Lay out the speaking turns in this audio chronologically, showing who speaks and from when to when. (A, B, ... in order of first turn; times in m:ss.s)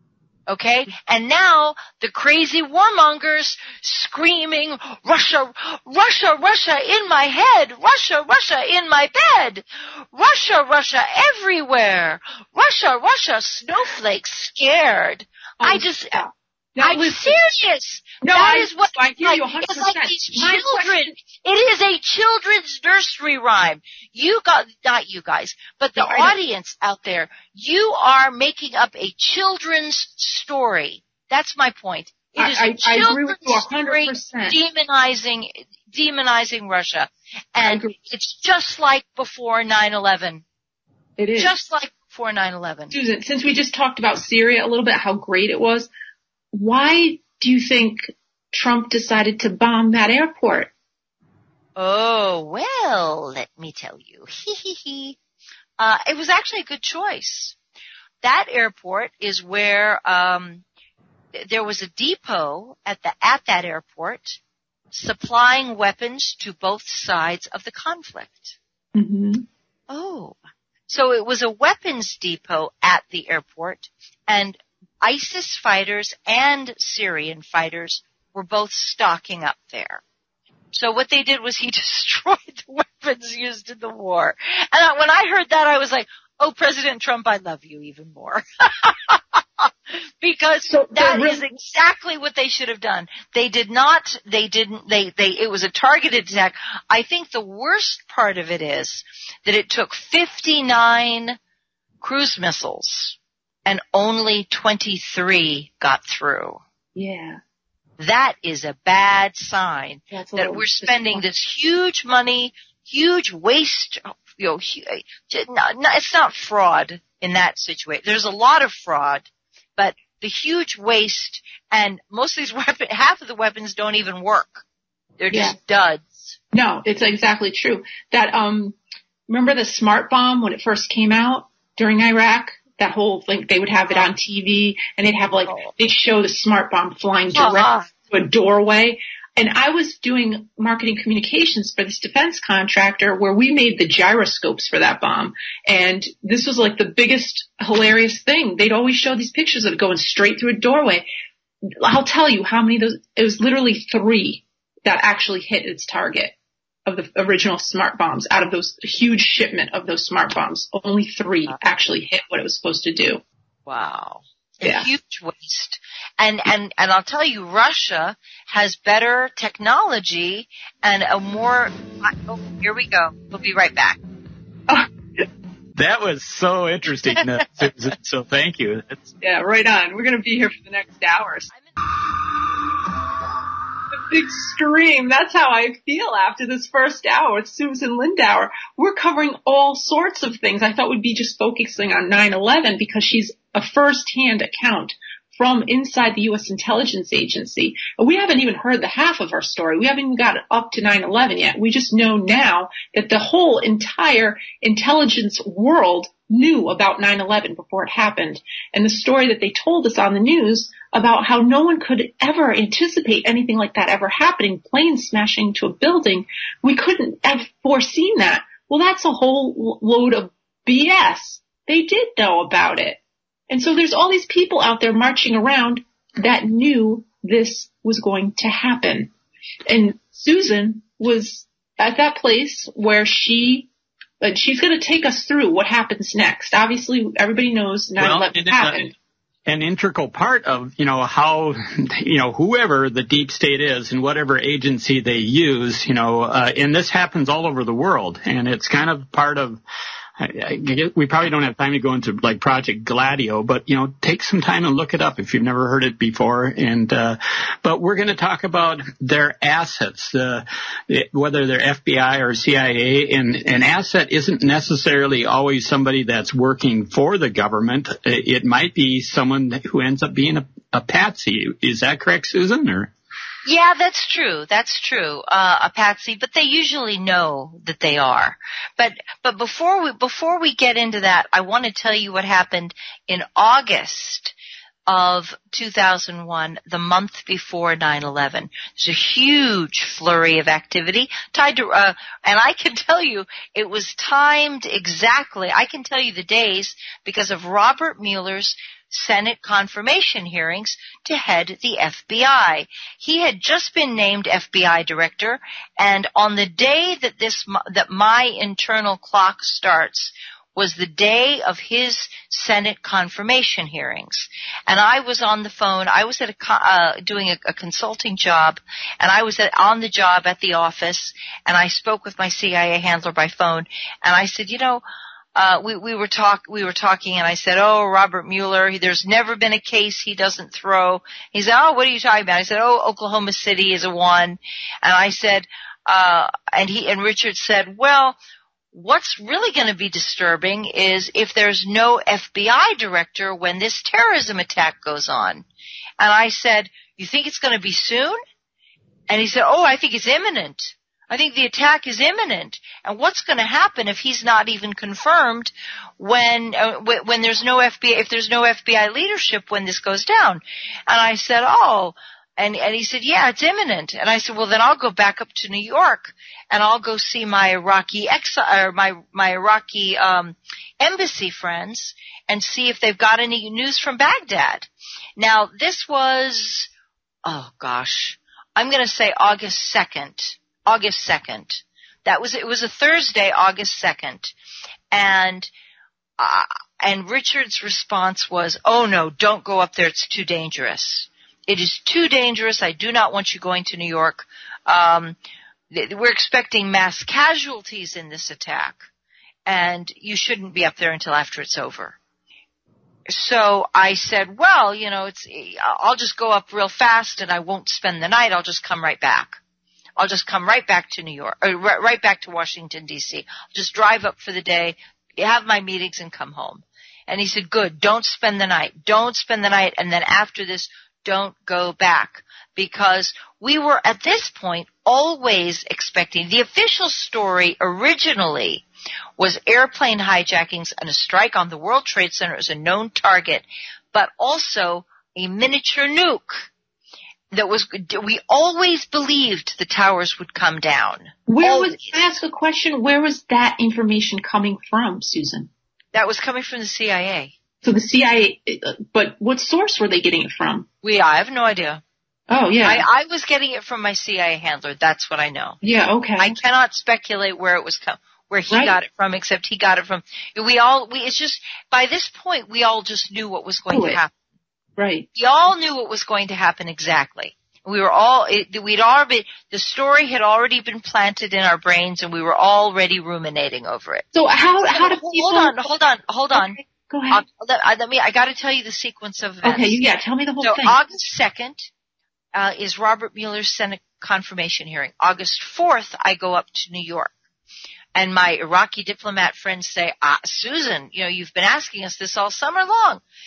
0:00.5-0:16.2 A
0:15.6-0:17.6 B
0:16.8-0:40.4 A
0:18.2-0:21.1 B
0:26.0-0:26.4 B
0:32.4-0:34.6 B
0:37.6-0:38.0 B
0:41.2-0:41.6 B
0:41.4-0:42.9 A
0:42.9-0:45.9 B
0:46.5-0:50.7 B
0:51.8-0:55.2 A
0:55.8-0:57.6 A
0:58.2-1:00.6 A
1:01.4-1:04.4 A
1:04.9-1:08.6 A
1:09.0-1:09.5 B
1:09.9-1:10.4 A
1:10.9-1:20.0 A
1:20.7-1:41.4 A
1:30.6-1:31.5 B
1:42.0-1:46.6 A
1:47.0-1:47.4 B
1:48.0-2:04.6 A
1:50.1-1:51.2 B
2:05.2-2:06.4 A
2:05.3-2:05.6 B
2:06.5-2:08.8 B
2:09.3-2:31.1 B
2:15.5-2:15.7 A
2:17.3-2:17.9 A
2:31.8-2:43.2 B
2:43.7-2:54.0 A
2:44.6-2:44.9 B
2:55.8-2:59.1 C
2:59.2-3:01.5 B
3:03.9-3:49.1 B
3:49.7-3:58.9 B
3:58.0-3:58.8 C
3:59.5-4:09.6 C
4:10.2-4:32.9 C
4:33.5-4:44.3 A
4:44.9-5:24.8 A
5:25.4-5:38.2 A
5:38.7-5:45.4 A
5:46.0-5:48.2 A
5:49.1-6:16.7 A
6:17.3-6:24.3 A
6:24.9-6:25.5 A
6:26.2-6:35.2 A
6:35.7-6:38.9 A
6:39.5-6:42.0 A
6:43.1-6:49.4 A
6:50.0-7:08.6 A
7:09.2-7:16.5 A
7:17.3-7:22.0 A
7:21.3-7:25.5 B
7:25.9-7:27.3 A
7:27.6-7:30.7 B
7:30.8-7:31.8 A
7:32.3-7:32.8 B
7:32.6-7:35.6 A
7:35.6-7:36.4 B
7:36.2-7:44.1 A
7:38.5-7:38.8 B
7:43.7-7:44.0 B
7:44.8-7:45.1 B
7:45.2-7:54.1 A
7:54.1-7:55.7 B
7:54.7-7:59.8 A
7:56.3-7:57.2 B
7:59.4-8:00.8 B
8:00.4-8:01.7 A
8:02.4-8:07.1 A
8:08.0-8:13.0 A